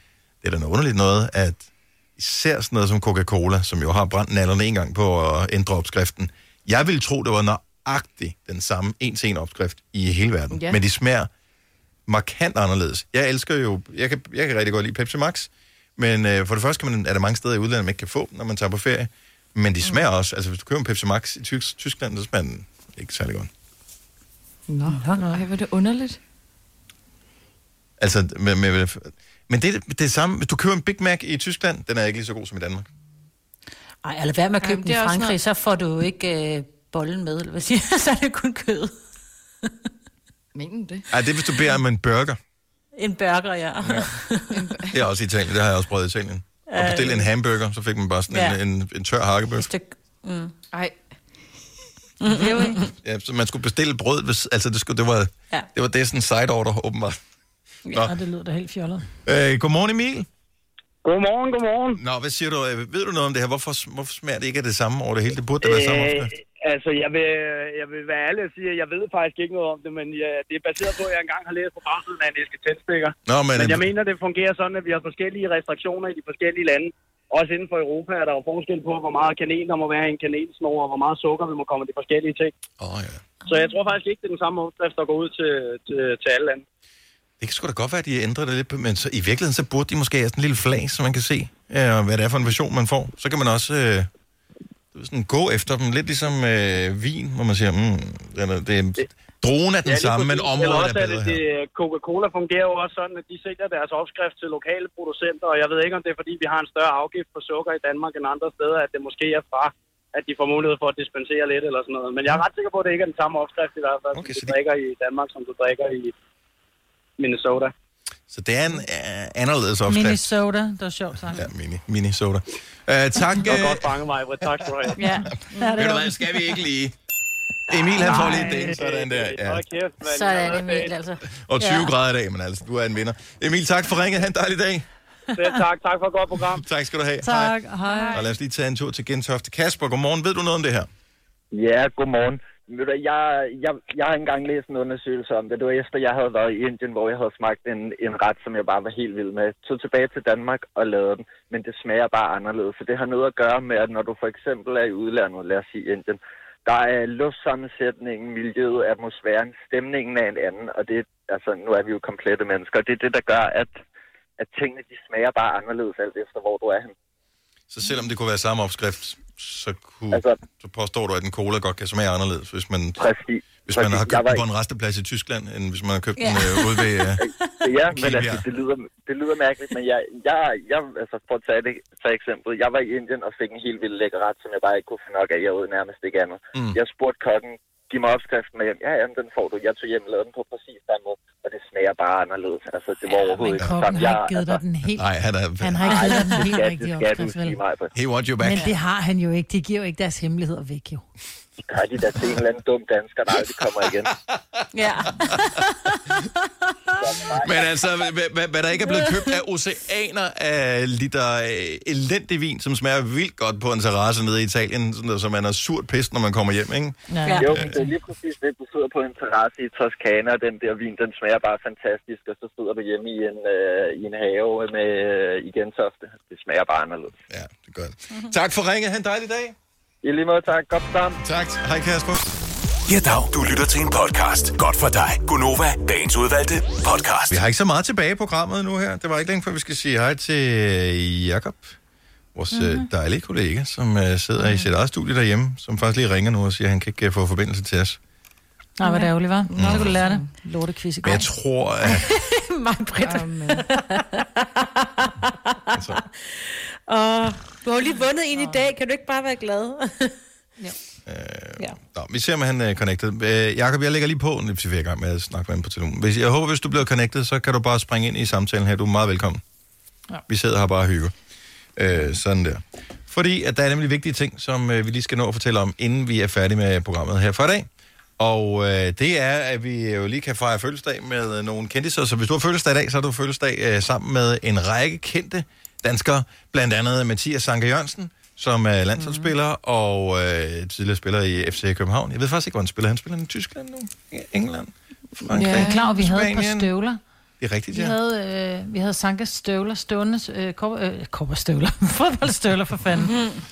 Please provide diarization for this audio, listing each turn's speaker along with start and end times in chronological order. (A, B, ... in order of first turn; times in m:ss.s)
0:00.4-0:11.3 A
0:12.1-0:23.5 A
0:24.7-0:26.2 B
0:24.9-0:25.3 C
0:28.0-0:32.8 A
0:34.0-0:38.9 C
0:34.6-0:35.4 B
0:40.5-0:41.0 B
0:41.1-0:42.4 A
0:43.0-0:44.6 C
0:43.8-0:44.1 A
0:44.5-0:44.9 B
0:44.9-0:49.7 A
0:46.7-0:47.3 C
0:48.3-0:48.6 C
0:49.6-0:50.5 C
0:52.2-0:52.9 C
0:52.3-0:52.8 D
0:53.0-0:57.2 A
0:57.9-0:58.1 A
0:57.9-0:59.0 D
0:59.2-1:00.3 A
1:01.0-1:02.0 E
1:01.9-1:06.3 A
1:05.6-1:22.5 E
1:13.2-1:13.9 A
1:22.8-1:23.2 A
1:23.4-1:26.6 E
1:27.4-1:34.1 A
1:34.9-1:41.4 A
1:39.8-1:56.1 E
1:54.1-1:54.6 A
1:57.2-1:57.7 E
1:58.3-2:00.3 A
1:59.9-2:01.4 D
2:01.3-2:04.7 A
2:03.4-2:05.0 E
2:05.0-2:06.2 D
2:05.2-2:06.9 A
2:05.6-2:05.8 B
2:07.7-2:09.6 A
2:08.0-2:08.7 D
2:08.0-2:10.9 E
2:10.1-2:11.9 C
2:11.4-2:14.8 A
2:15.3-2:16.6 E
2:16.6-2:17.5 A
2:17.2-2:18.2 D
2:17.9-2:18.3 B
2:18.1-2:20.9 A
2:21.5-2:43.8 F
2:44.4-2:46.9 F
2:47.7-2:53.0 A
2:50.1-2:50.4 F
2:53.0-2:54.4 F
2:53.6-2:57.2 A
2:56.2-2:56.9 C
2:57.2-3:14.6 F
2:57.4-2:57.7 C
2:57.9-2:58.4 A
3:13.4-3:15.1 D
3:15.0-3:15.9 A
3:15.6-3:17.6 D
3:15.8-3:17.9 F
3:15.8-3:16.5 C
3:17.9-3:18.7 A
3:18.4-3:21.0 D
3:21.7-3:24.1 F
3:23.3-3:24.6 A
3:24.7-3:26.2 C
3:26.9-3:27.8 F
3:27.4-3:37.8 A
3:28.9-3:29.2 C
3:37.1-3:37.9 D
3:37.2-3:37.7 C
3:37.3-3:47.2 F
3:47.3-3:49.5 A
3:50.0-3:51.2 F
3:51.2-3:52.4 A
3:52.9-3:57.4 G
3:57.3-4:01.8 A
4:02.3-4:08.0 A
4:02.5-4:02.8 D
4:08.8-4:11.3 D
4:09.5-4:10.3 B
4:09.6-4:10.0 A
4:11.0-4:12.1 A
4:11.9-4:20.1 C
4:13.0-4:13.5 B
4:13.2-4:13.6 D
4:15.7-4:16.0 A
4:21.0-4:29.4 A
4:30.3-4:31.1 A
4:31.8-4:37.7 A
4:38.2-4:56.7 A
4:49.0-4:49.3 D
4:55.3-4:55.8 B
4:55.4-4:57.0 D
4:57.4-4:58.0 A
4:57.7-5:03.2 D
5:03.1-5:03.4 C